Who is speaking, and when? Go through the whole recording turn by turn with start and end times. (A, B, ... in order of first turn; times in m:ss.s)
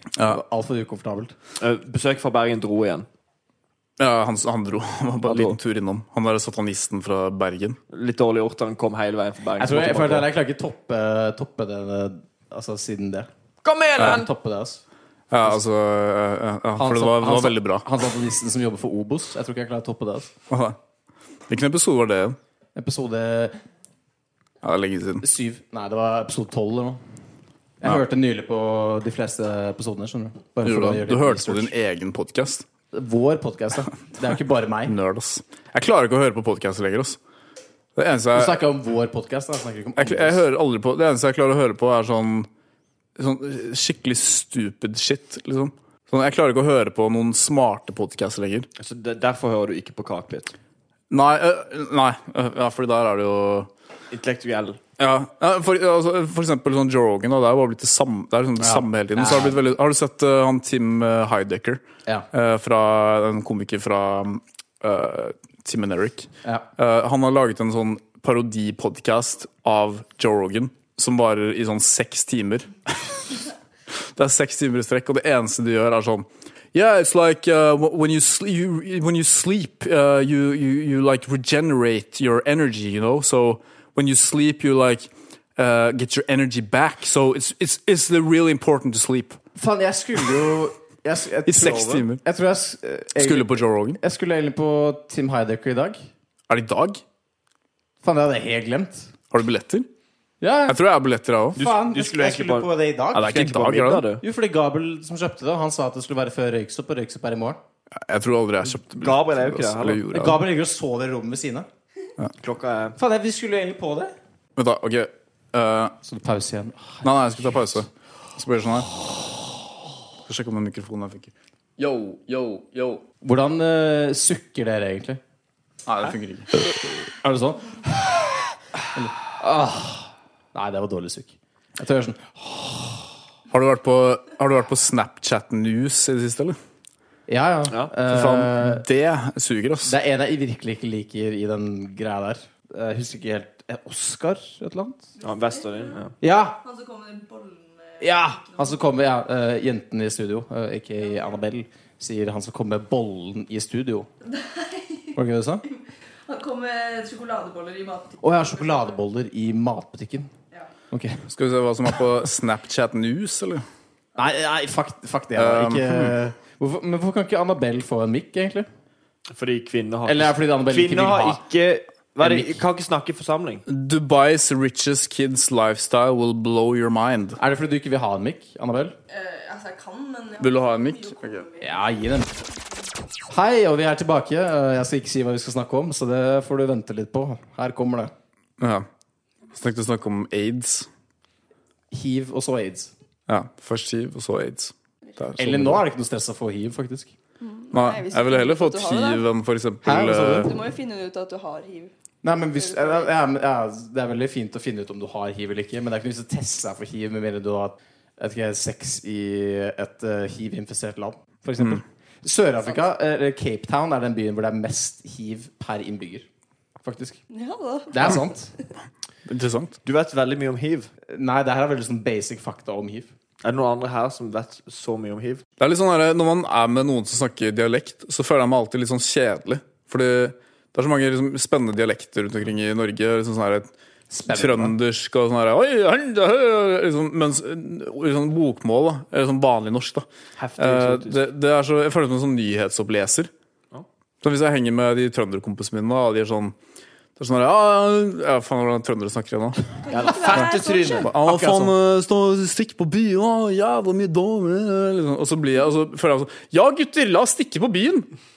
0:00.2-0:01.4 A
0:01.6-0:03.1 B
0:04.0-0:07.8 C
0:05.3-0:05.6 B
0:07.9-0:10.3 B
0:09.6-0:13.3 A
0:13.6-0:14.3 B
0:14.0-0:14.8 A
0:15.3-0:17.9 C
0:16.8-0:20.3 A
0:20.5-0:20.8 C
0:21.5-0:22.4 C
0:22.8-0:23.6 A
0:24.6-0:25.2 C
0:25.2-0:27.0 A
0:27.8-0:31.7 A
0:30.6-0:32.6 C
0:32.9-0:34.9 A
0:34.9-0:37.2 C
0:38.0-0:38.6 C
0:38.3-0:40.4 A
0:40.0-0:42.5 C
0:43.2-0:48.7 C
0:48.8-0:50.5 B
0:51.1-0:53.7 C
0:54.1-0:54.8 B
0:55.0-1:01.8 C
0:58.6-0:59.6 A
1:02.3-1:29.4 C
1:29.6-1:36.0 A
1:31.5-1:32.2 C
1:33.2-1:34.0 C
1:36.5-1:37.0 C
1:38.0-1:39.1 A
1:39.3-1:39.9 C
1:40.4-1:40.8 A
1:40.7-1:41.6 C
1:41.6-1:43.4 A
1:41.6-1:44.2 B
1:43.1-1:44.1 C
1:44.2-1:47.6 A
1:48.0-1:50.4 C
1:48.8-1:50.1 B
1:50.1-1:51.7 A
1:52.4-1:53.0 B
1:53.0-1:54.2 A
1:54.6-1:56.0 C
1:56.0-1:57.1 A
1:57.0-1:58.9 C
2:00.3-2:03.0 C
2:03.2-2:05.2 A
2:05.9-2:06.5 C
2:06.6-2:08.0 A
2:08.9-2:13.1 A
2:13.5-2:16.6 C
2:17.3-2:18.8 A
2:18.1-2:20.0 C
2:19.8-2:25.1 A
2:25.2-2:26.1 B
2:25.6-2:25.9 D
2:26.2-2:26.6 A
2:26.6-2:28.0 D
2:28.0-2:34.1 A
2:34.2-2:35.2 D
2:35.1-2:35.6 A
2:35.7-2:38.2 D
2:38.2-2:40.3 A
2:40.9-2:41.3 A
2:41.3-2:43.6 C
2:44.2-2:48.7 A
2:45.4-2:46.2 C
2:49.3-2:53.6 B
2:50.1-2:51.4 A
2:52.2-2:52.6 A
2:53.7-2:57.4 C
2:57.4-2:59.0 A
2:59.1-3:01.8 D
3:00.4-3:01.5 C
3:01.6-3:02.4 A
3:03.3-3:08.1 A
3:08.6-3:08.9 C
3:09.5-3:10.9 C
3:11.9-3:12.9 A
3:13.3-3:15.8 C
3:15.4-3:17.1 A
3:17.4-3:19.2 D
3:17.7-3:20.6 C
3:19.8-3:20.6 A
3:20.4-3:21.9 D
3:22.2-3:36.3 A
3:22.6-3:23.1 D
3:36.8-3:37.2 A
3:37.3-3:38.2 D
3:37.9-3:38.5 A
3:39.3-3:39.8 C
3:39.8-3:40.9 B
3:41.1-3:43.1 A
3:43.4-3:45.4 B
3:45.6-3:53.7 C
3:54.1-3:54.7 A
3:54.3-4:00.1 C
4:00.4-4:01.2 B
4:00.6-4:03.3 C
4:04.2-4:06.6 C
4:07.2-4:09.6 C
4:09.9-4:11.1 D
4:09.9-4:11.7 A
4:09.9-4:11.1 B
4:10.3-4:18.1 C